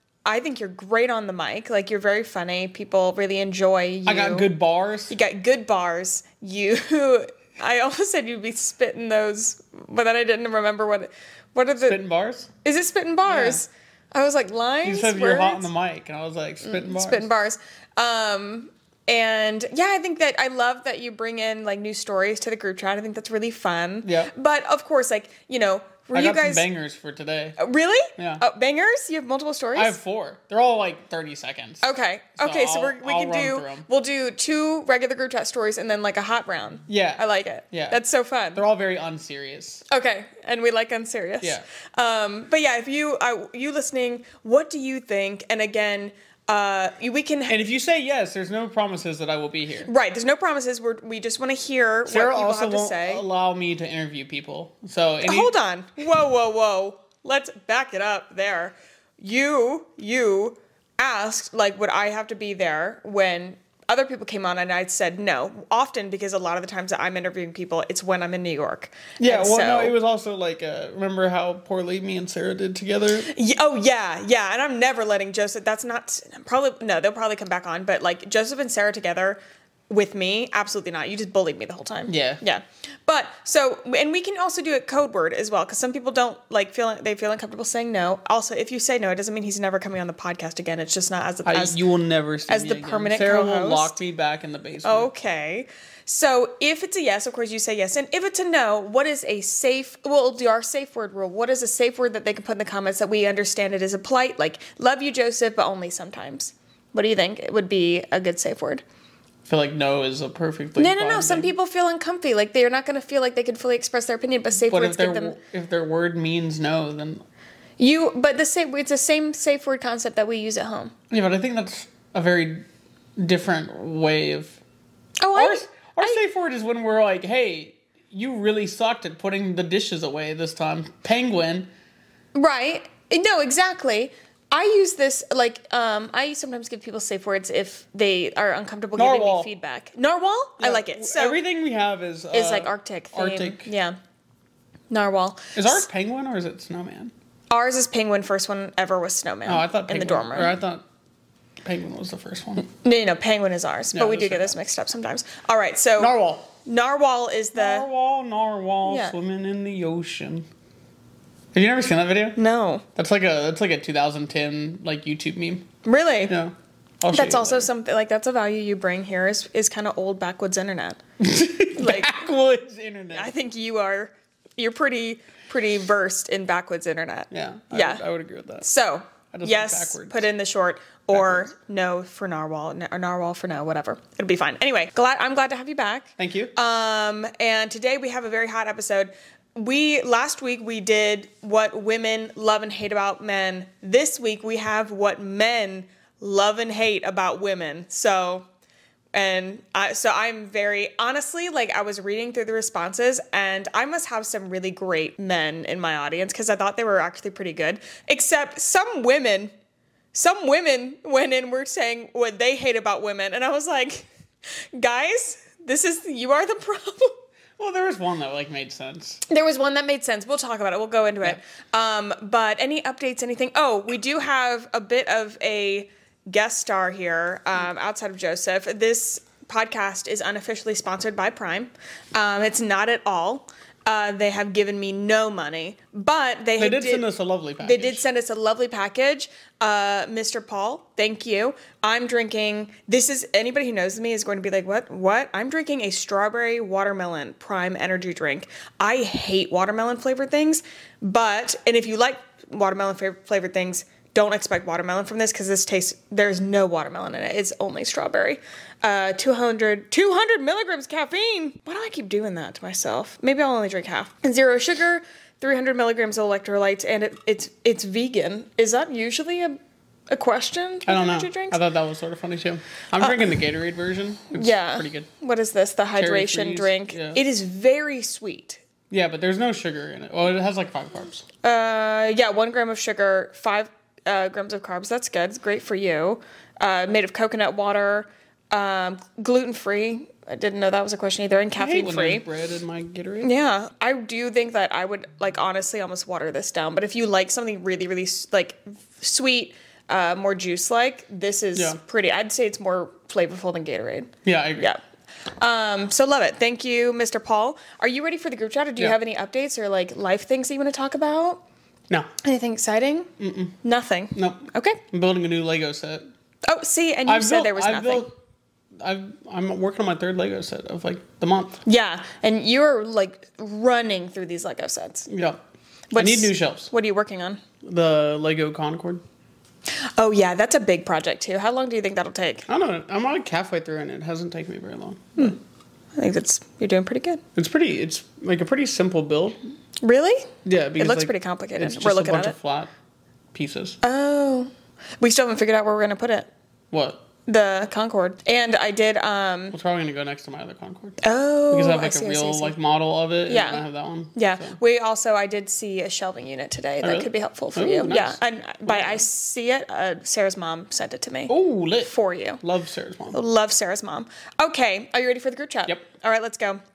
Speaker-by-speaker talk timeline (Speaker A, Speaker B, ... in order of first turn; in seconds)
Speaker A: 0.2-4.5, 5.1-12.0, 12.6-15.7, 16.6-26.6, 27.6-30.0, 31.8-38.6, 39.9-47.6, 49.9-53.2, 55.2-70.0, 73.3-91.8, 92.5-94.0, 94.8-108.8, 110.8-115.4, 117.8-120.9, 125.2-126.2, 132.3-141.4, 142.3-144.0, 144.9-145.8, 147.5-150.6, 152.7-157.8, 158.8-159.2, 162.4-162.8, 165.8-166.3, 167.1-171.0, 171.8-172.2, 173.1-178.0, 178.6-198.5, 199.1-209.5, 210.1-214.1, 214.8-217.2, 219.3-237.1, 237.6-269.6, 270.1-271.6, 274.3-278.6, 281.4-292.2, 293.2-304.8, 305.4-311.4, 312.2-313.1, 313.6-314.8, 316.5-318.1, 321.6-325.1, 325.9-327.4, 329.8-332.5, 336.0-337.2, 339.8-342.4, 343.8-346.3, 347.2-349.5, 351.0-352.6, 353.3-353.6, 354.1-362.4, 363.1-366.6
Speaker B: 4.1-5.2, 11.8-12.5, 13.2-13.6, 14.8-17.3, 24.0-24.3, 26.1-27.6, 28.2-28.4, 29.8-33.9, 36.9-38.0, 38.5-39.8, 47.5-49.9, 52.1-55.5, 69.2-73.3, 82.1-82.4, 91.5-95.1, 109.5-111.5, 114.7-117.2, 121.1-122.7, 123.2-124.6, 125.3-131.7, 139.0-139.5, 140.6-143.7, 145.5-147.1, 149.4-150.8, 151.6-152.7, 153.9-154.6, 156.0-156.5, 157.6-160.5, 161.5-162.4, 162.9-165.7, 166.3-167.7, 171.2-173.3, 177.3-178.7, 179.3-180.3, 181.1-181.5, 186.2-186.5, 217.6-219.2, 236.6-238.0, 270.9-275.1, 276.0-277.2, 278.9-281.2, 291.6-293.3, 304.2-304.7, 313.2-313.6, 314.1-316.1, 317.1-318.1, 318.8-321.6, 325.1-325.4, 326.0-326.7, 327.6-329.0, 332.5-335.4, 337.4-339.4, 340.4-342.7, 343.3-343.8, 346.7-347.0, 349.5-354.6, 356.8-359.0, 361.3-363.2